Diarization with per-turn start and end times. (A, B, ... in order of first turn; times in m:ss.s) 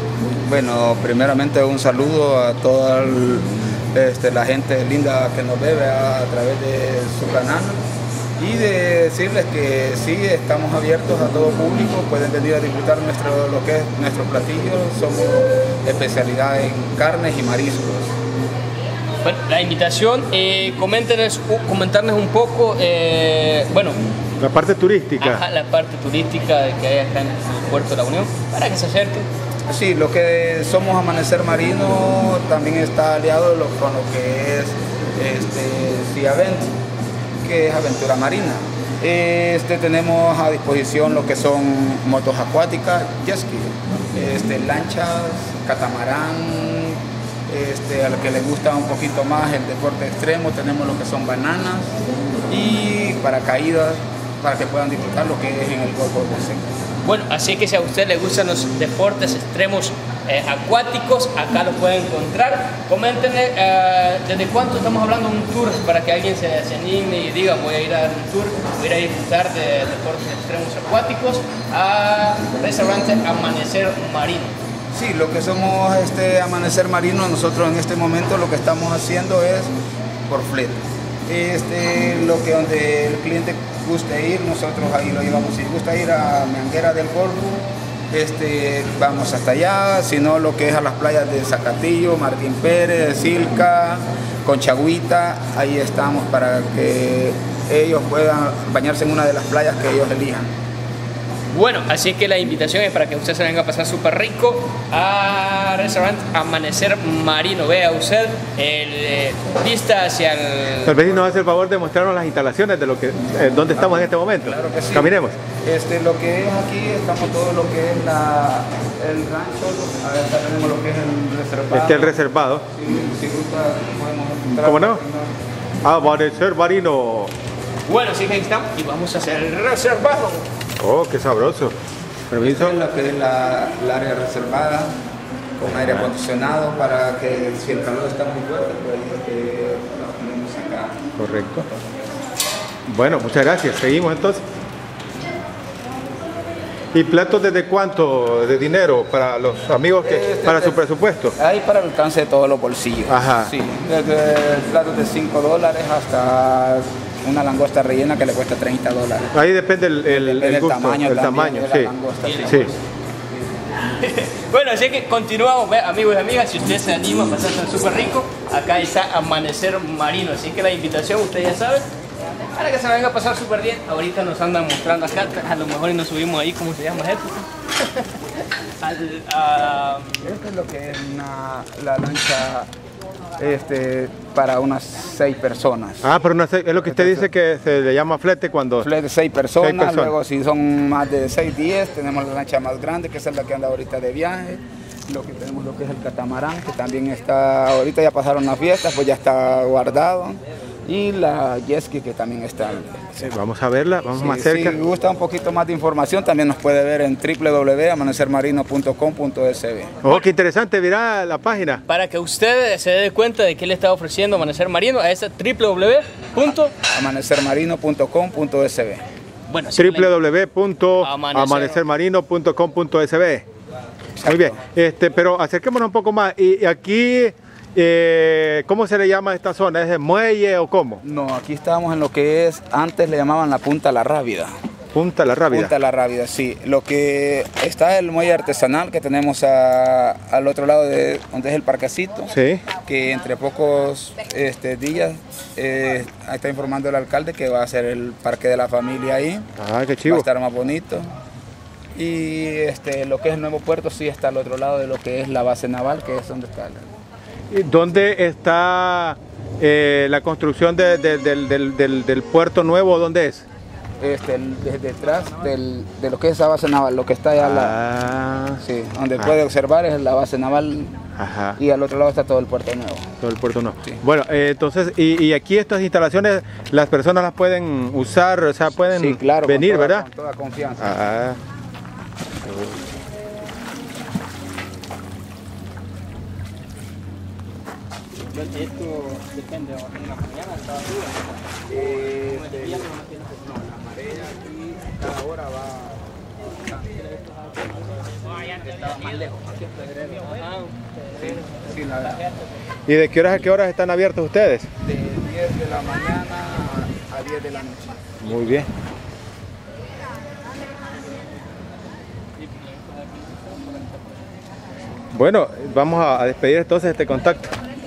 0:00.5-0:07.8 A
0:08.4-0:18.1 A
0:19.2-0:24.0 B
0:24.4-0:25.4 C
0:25.2-0:29.3 B
0:29.7-0:36.7 A
0:37.4-0:51.9 A
0:52.5-0:56.6 A
0:57.0-1:14.5 B
1:14.9-1:19.7 A
1:20.3-1:40.5 A
1:41.5-1:51.0 B
1:50.8-1:55.4 C
1:53.8-2:02.2 A
2:01.7-2:02.6 C
2:02.7-2:05.3 A
2:04.5-2:05.0 C
2:05.8-2:07.3 C
2:07.9-2:10.5 B
2:10.8-2:11.8 C
2:12.3-2:12.8 C
2:12.4-2:14.9 A
2:15.6-2:21.0 A
2:15.8-2:16.1 C
2:21.2-2:21.7 C
2:21.7-2:22.1 A
2:22.9-2:24.4 C
2:26.9-2:31.3 C
2:30.0-2:30.8 A
2:31.4-2:39.4 A
2:33.1-2:33.5 C
2:39.3-2:41.9 C
2:40.1-2:42.8 A
2:42.2-2:42.7 B
2:43.9-2:51.8 B
2:52.5-2:57.5 B
2:58.8-3:00.4 B
3:00.2-3:02.7 A
3:03.4-3:06.1 A
3:06.0-3:08.9 C
3:06.9-3:07.3 A
3:08.8-3:23.2 A
3:09.6-3:10.1 C
3:23.2-3:24.8 C
3:24.2-3:30.0 A
3:30.0-3:31.8 C
3:31.9-3:36.7 B
3:36.9-3:39.0 A
3:39.5-3:40.1 B
3:39.8-3:43.4 C
3:41.0-3:41.8 B
3:44.2-3:51.0 C
3:44.2-3:44.5 A
3:51.0-3:54.5 A
3:54.9-3:55.7 C
3:55.5-4:02.3 A
4:02.3-4:02.6 C
4:02.8-4:09.5 A
4:09.6-4:10.3 C
4:10.0-4:11.1 A
4:12.0-4:16.8 A
4:17.5-4:23.4 C
4:24.0-4:27.8 A
4:27.4-4:28.6 C
4:28.6-4:31.0 A
4:31.2-4:31.6 C
4:31.6-4:33.1 A
4:33.2-4:40.1 C
4:39.0-4:41.1 A
4:40.8-4:41.4 C
4:42.4-4:42.8 C
4:48.3-4:51.3 B
4:51.7-4:56.0 A
4:52.5-4:53.1 B
4:58.4-5:00.2 A
5:00.3-5:00.7 B
5:01.1-5:02.2 A
5:02.9-5:04.7 C
5:04.8-5:08.1 A
5:08.2-5:08.7 C
5:15.1-5:17.5 C